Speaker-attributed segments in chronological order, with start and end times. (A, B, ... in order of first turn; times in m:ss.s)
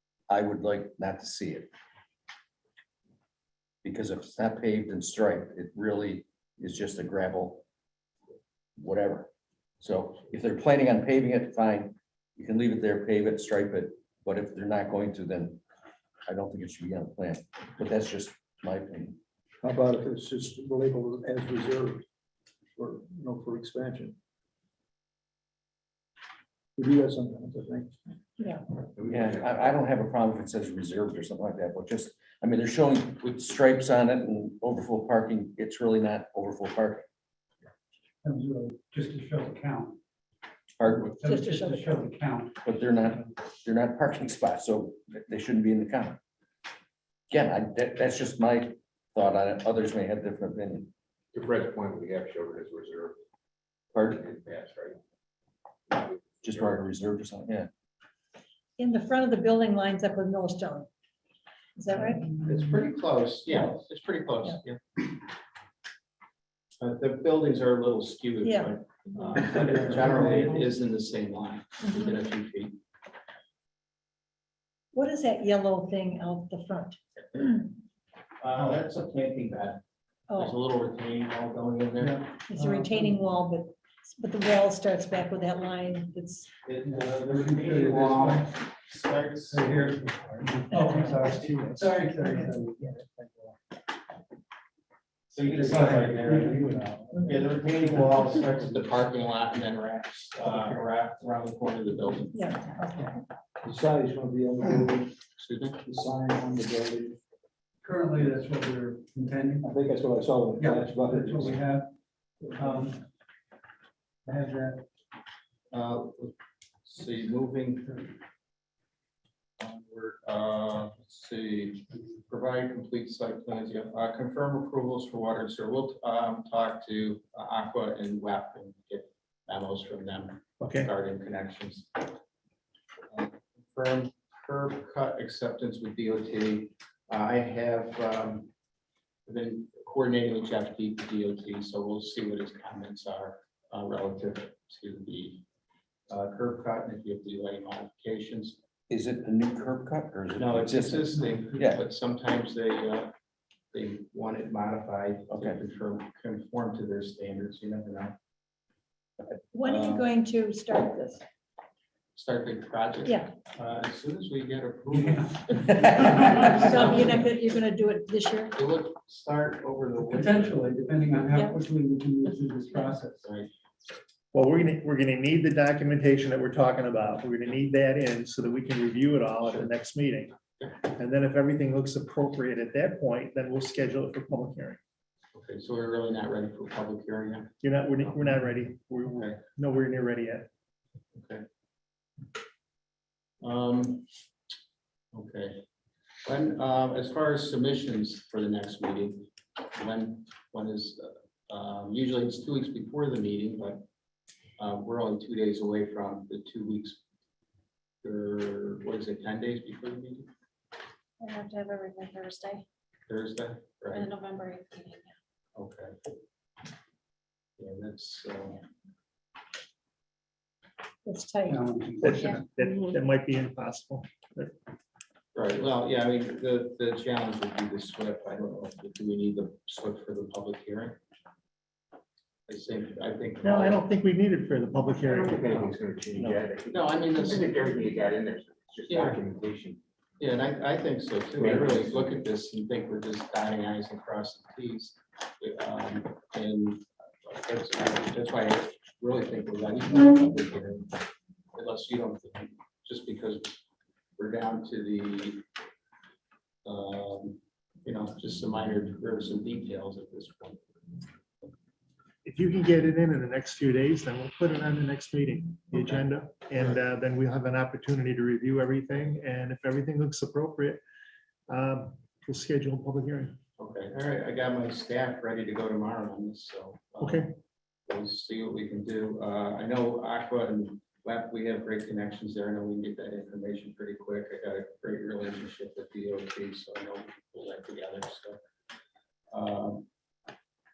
0:00.3-0:01.7 A
0:03.8-0:07.6 A
0:08.8-0:09.3 A
0:09.8-0:15.6 A
0:16.3-0:19.2 A
0:19.6-0:22.0 B
0:22.8-0:24.2 B
0:26.8-0:28.0 B
0:28.4-0:28.6 C
0:29.0-0:29.7 D
0:29.1-0:37.0 A
0:38.2-0:40.0 E
0:40.8-0:41.2 A
0:40.9-0:43.0 E
0:41.2-0:42.0 C
0:42.6-0:46.2 A
0:47.3-0:50.9 A
0:51.3-0:53.2 D
0:53.9-0:54.2 A
0:54.0-0:55.0 D
0:55.9-0:56.7 D
0:56.4-0:57.7 A
0:58.8-1:00.9 C
1:01.8-1:02.4 C
1:02.4-1:05.0 F
1:06.8-1:12.8 F
1:08.4-1:08.8 C
1:14.9-1:17.0 C
1:17.2-1:17.7 F
1:18.4-1:19.8 F
1:20.3-1:20.6 C
1:20.4-1:22.4 F
1:22.0-1:23.0 E
1:22.5-1:26.5 C
1:26.6-1:30.0 F
1:26.8-1:28.5 E
1:29.5-1:33.3 E
1:30.7-1:32.0 G
1:35.3-1:42.5 F
1:35.5-1:37.2 E
1:35.5-1:36.6 G
1:42.3-1:43.2 C
1:43.6-1:45.2 B
1:45.4-1:45.8 F
1:45.8-1:47.2 B
1:47.8-1:49.7 E
1:49.6-1:51.6 B
1:50.6-1:51.9 E
1:52.4-1:52.7 B
1:52.6-1:53.0 E
1:54.2-1:54.8 E
1:55.7-1:58.0 F
1:59.6-2:12.1 F
2:10.6-2:10.9 G
2:13.1-2:18.5 F
2:19.3-2:25.4 F
2:26.1-2:28.6 F
2:28.9-2:31.8 A
2:30.3-2:33.1 F
2:33.7-2:38.2 F
2:35.3-2:35.6 A
2:39.5-2:41.2 C
2:39.8-2:40.0 F
2:42.2-2:47.3 F
2:43.0-2:43.3 C
2:44.9-2:46.6 E
2:46.2-2:48.5 C
2:48.6-2:50.6 F
2:50.0-2:53.3 E
2:51.3-2:51.6 C
2:53.2-2:53.5 F
2:54.3-3:04.8 G
3:05.3-3:08.2 F
3:07.6-3:10.5 G
3:09.1-3:09.4 F
3:11.2-3:11.4 F
3:13.4-3:14.1 F
3:15.1-3:15.6 F
3:16.2-3:23.8 F
3:24.6-3:27.0 F
3:28.0-3:30.3 F
3:31.2-3:32.6 H
3:33.1-3:34.1 F
3:34.1-3:35.1 H
3:35.6-3:36.0 F
3:37.6-3:38.6 F
3:41.0-3:41.7 C
3:41.5-3:42.2 E
3:42.0-3:44.5 G
3:45.4-3:51.0 F
3:52.5-3:53.8 F
3:53.4-3:56.3 G
3:55.0-3:59.8 D
3:56.7-3:57.6 F
3:58.9-3:59.2 F
4:00.2-4:10.9 F
4:01.4-4:02.2 D
4:11.5-4:13.6 F
4:14.2-4:15.4 F
4:16.6-4:20.6 F
4:22.2-4:30.8 G
4:25.7-4:26.0 F
4:31.5-4:33.4 G
4:33.6-4:37.2 F
4:37.0-4:37.3 G
4:37.9-4:48.4 F
4:49.3-4:49.9 F